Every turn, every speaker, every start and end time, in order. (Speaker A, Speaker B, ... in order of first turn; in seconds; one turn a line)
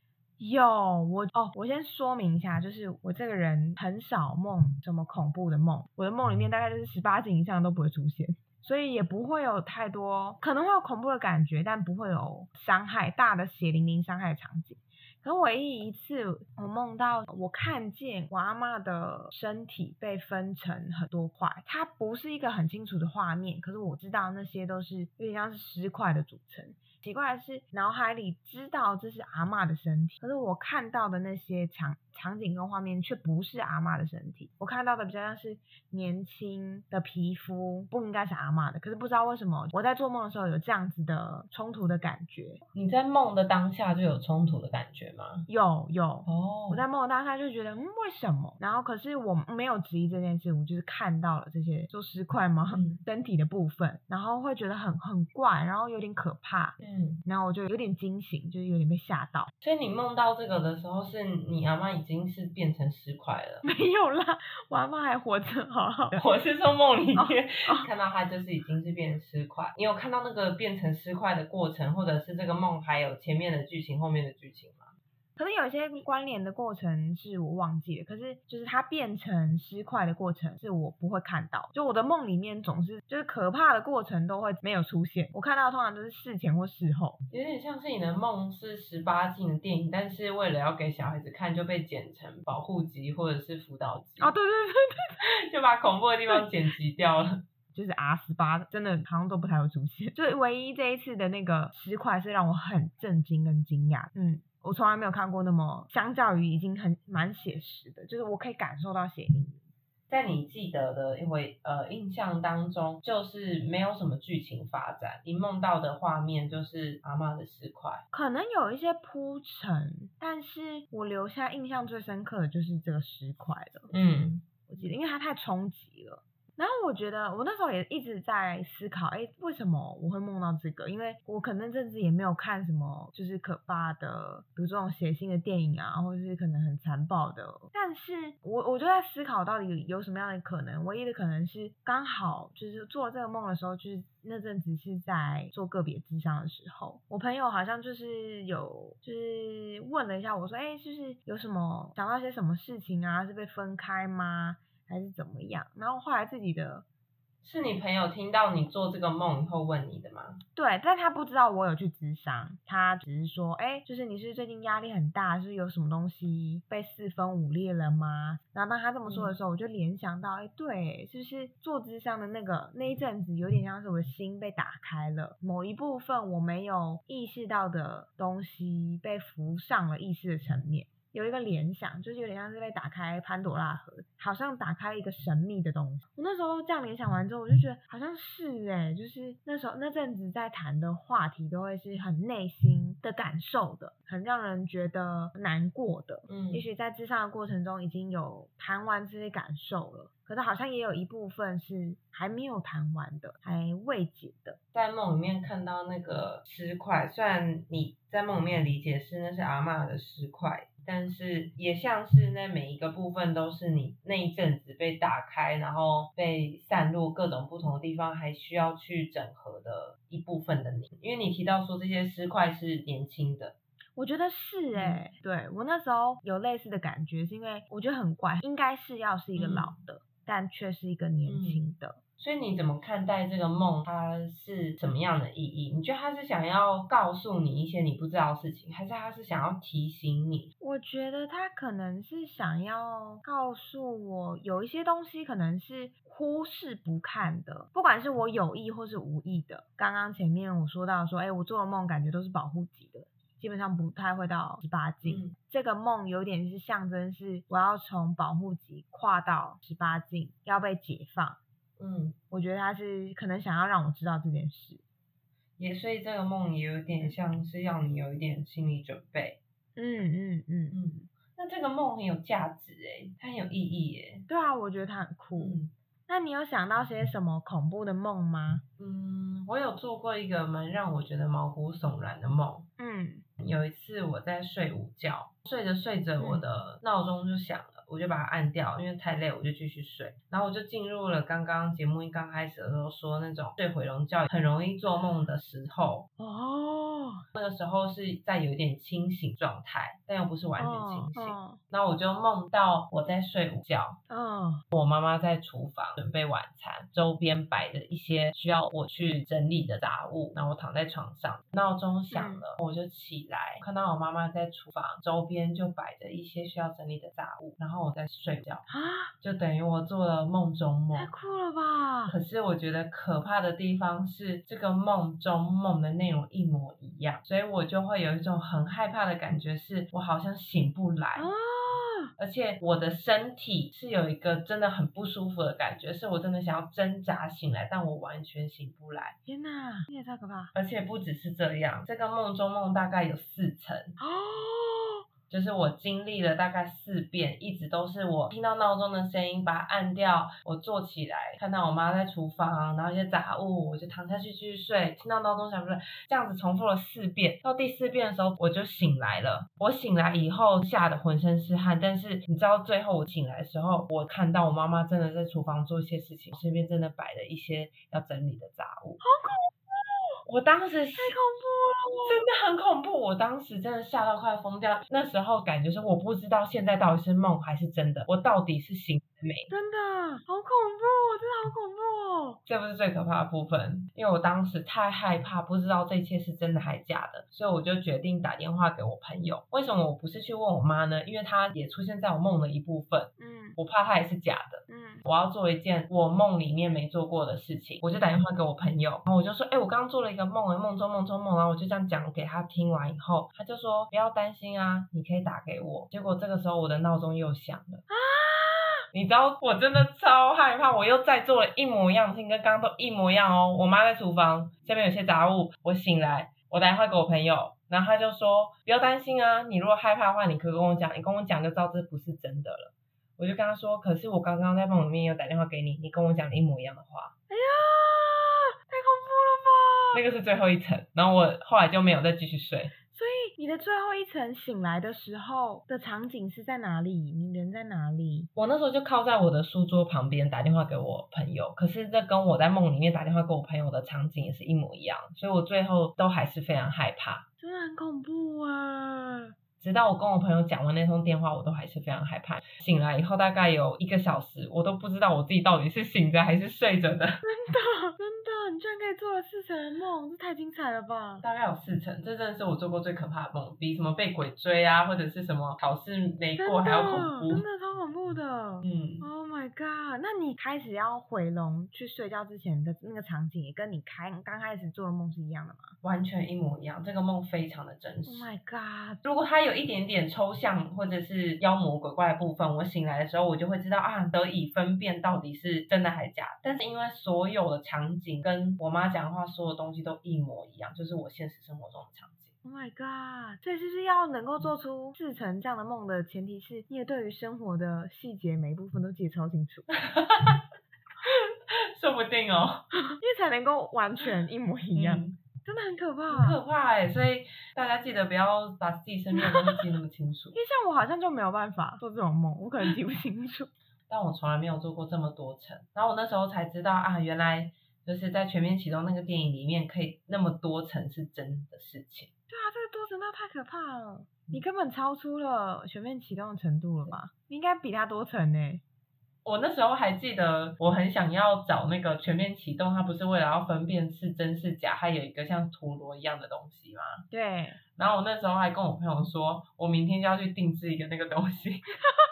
Speaker A: 0.4-42.6
Speaker B: 42.7-45.5
Speaker A: 45.5-59.5
Speaker B: 46.2-46.8
Speaker B: 52.7-53.0
Speaker B: 56.8-57.2
Speaker B: 59.6-63.6
Speaker A: 63.6-66.2
Speaker B: 66.1-74.9
Speaker A: 67.2-67.9
Speaker A: 75.3-87.2
Speaker B: 87.3-94.3
Speaker A: 94.2-95.2
Speaker B: 95.2-97.4
Speaker A: 97.7-109.6
Speaker B: 110.1-118.0
Speaker A: 118.1-123.9
Speaker B: 123.9-124.4
Speaker A: 124.7-156.8
Speaker B: 157.4-160.4
Speaker A: 160.6-204.6
Speaker B: 169.0-169.3
Speaker B: 196.3-196.6
Speaker B: 204.7-223.5
Speaker A: 224.0-232.0
Speaker B: 224.7-225.0
Speaker B: 229.3-229.8
Speaker B: 231.2-231.6
Speaker B: 232.2-240.5
Speaker A: 240.6-261.4
Speaker B: 255.0-255.3
Speaker B: 261.8-262.1
Speaker A: 262.3-264.8
Speaker B: 265.6-269.4
Speaker A: 269.8-270.8
Speaker B: 270.7-274.3
Speaker A: 274.3-278.6
Speaker B: 275.3-275.7
Speaker B: 278.8-282.7
Speaker A: 282.8-283.2
Speaker B: 283.4-296.1
Speaker A: 286.2-286.4
Speaker A: 296.2-297.2
Speaker B: 297.3-304.0
Speaker A: 300.6-301.6
Speaker A: 304.1-304.6
Speaker B: 304.7-318.7
Speaker A: 312.1-312.4
Speaker A: 318.7-319.1
Speaker B: 319.2-321.1
Speaker A: 320.9-322.1
Speaker B: 322.1-331.3
Speaker A: 331.1-332.1
Speaker B: 332.2-339.1
Speaker A: 339.2-340.5
Speaker B: 340.5-343.9
Speaker A: 344.0-345.0
Speaker B: 345.3-369.0
Speaker A: 369.0-369.5
Speaker B: 370.2-371.2
Speaker A: 370.9-372.2
Speaker B: 372.0-379.5
Speaker A: 379.5-382.4
Speaker B: 382.5-407.8
Speaker A: 393.2-393.6
Speaker A: 394.7-395.0
Speaker A: 407.9-408.8
Speaker B: 408.9-427.1
Speaker A: 427.3-430.0
Speaker B: 429.9-432.7
Speaker A: 432.9-438.3
Speaker B: 438.3-447.2
Speaker A: 447.4-449.3
Speaker B: 449.6-457.2
Speaker A: 457.2-461.2
Speaker B: 461.2-467.4
Speaker A: 466.4-475.7
Speaker B: 468.6-469.1
Speaker B: 475.8-478.3
Speaker A: 478.1-479.0
Speaker B: 479.0-492.3
Speaker A: 492.4-499.7
Speaker B: 499.7-500.4
Speaker B: 501.0-502.6
Speaker A: 502.9-506.4
Speaker B: 504.7-505.2
Speaker B: 506.1-510.4
Speaker A: 509.2-509.6
Speaker A: 510.3-513.5
Speaker B: 513.9-522.1
Speaker A: 522.3-528.6
Speaker B: 529.2-537.0
Speaker A: 537.1-537.6
Speaker B: 537.8-541.6